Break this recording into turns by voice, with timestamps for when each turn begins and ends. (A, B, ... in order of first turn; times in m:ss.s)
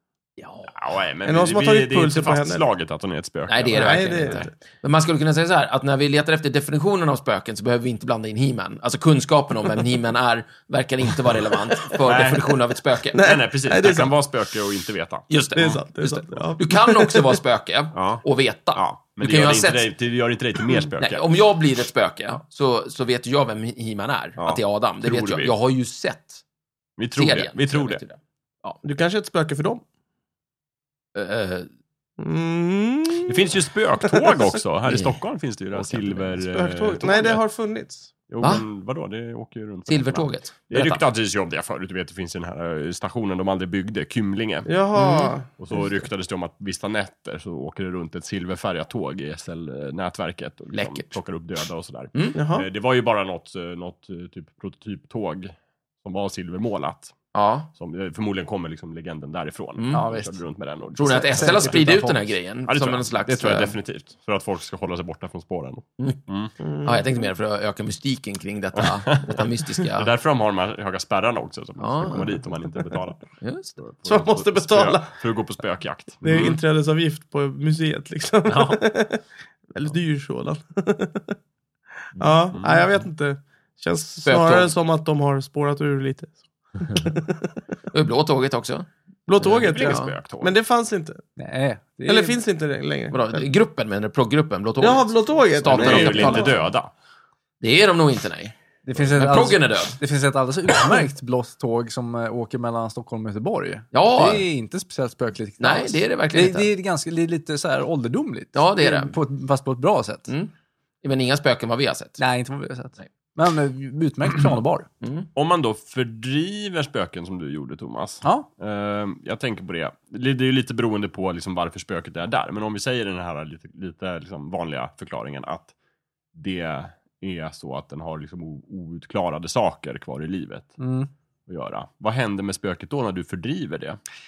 0:00.4-0:00.7 A
0:00.7-0:04.4 B
0:01.2-0:02.6 C
0:03.5-0:13.3 A
0:03.7-0:04.5 C
0:12.0-0:12.6 B
0:13.1-0:15.3 B
0:13.2-0:14.1 C
0:15.3-0:19.9 A
0:15.6-0:17.4 C
0:18.0-0:18.2 B
0:18.8-0:21.3 B
0:21.0-0:26.4 A
0:24.4-0:25.5 B
0:27.0-0:28.0 B
0:27.2-0:28.8 A
0:28.8-0:29.8 C
0:31.2-0:31.7 A
0:32.2-0:34.4 C
0:33.2-0:37.4 B
0:34.9-0:35.2 A
0:35.8-0:36.3 A
0:36.3-0:38.1 C
0:38.3-0:44.7 B
0:39.9-0:41.0 A
0:44.7-0:45.5 C
0:45.0-0:45.3 A
0:45.5-0:57.2 B
0:50.7-0:51.1 A
0:52.1-0:52.4 A
0:52.4-0:52.7 C
0:57.3-0:57.7 A
0:57.7-1:02.1 B
0:59.8-1:00.1 A
0:59.9-1:00.4 D
1:01.0-1:03.8 A
1:01.0-1:02.3 D
1:02.7-1:06.5 B
1:06.6-1:07.3 C
1:06.8-1:10.1 A
1:08.8-1:16.6 B
1:11.8-1:12.4 A
1:13.4-1:13.8 A
1:14.0-1:15.1 C
1:16.2-1:21.4 C
1:18.5-1:18.8 A
1:22.2-1:27.5 C
1:22.5-1:22.8 B
1:24.2-1:24.7 A
1:27.9-1:28.9 A
1:29.3-1:31.2 C
1:29.4-1:30.5 B
1:29.8-1:30.2 A
1:31.4-1:32.4 D
1:32.1-1:33.5 C
1:33.1-1:36.6 A
1:34.8-1:36.6 C
1:35.6-1:36.9 B
1:37.6-1:38.6 A
1:38.8-1:50.3 D
1:39.1-1:40.0 A
1:43.9-1:44.4 A
1:45.6-1:46.7 A
1:48.5-1:49.2 A
1:51.0-1:52.2 A
1:52.2-1:54.9 D
1:55.0-1:55.3 A
1:55.4-2:05.7 B
1:58.2-1:58.5 D
2:06.3-2:10.8 B
2:10.8-2:11.1 D
2:11.5-2:14.0 B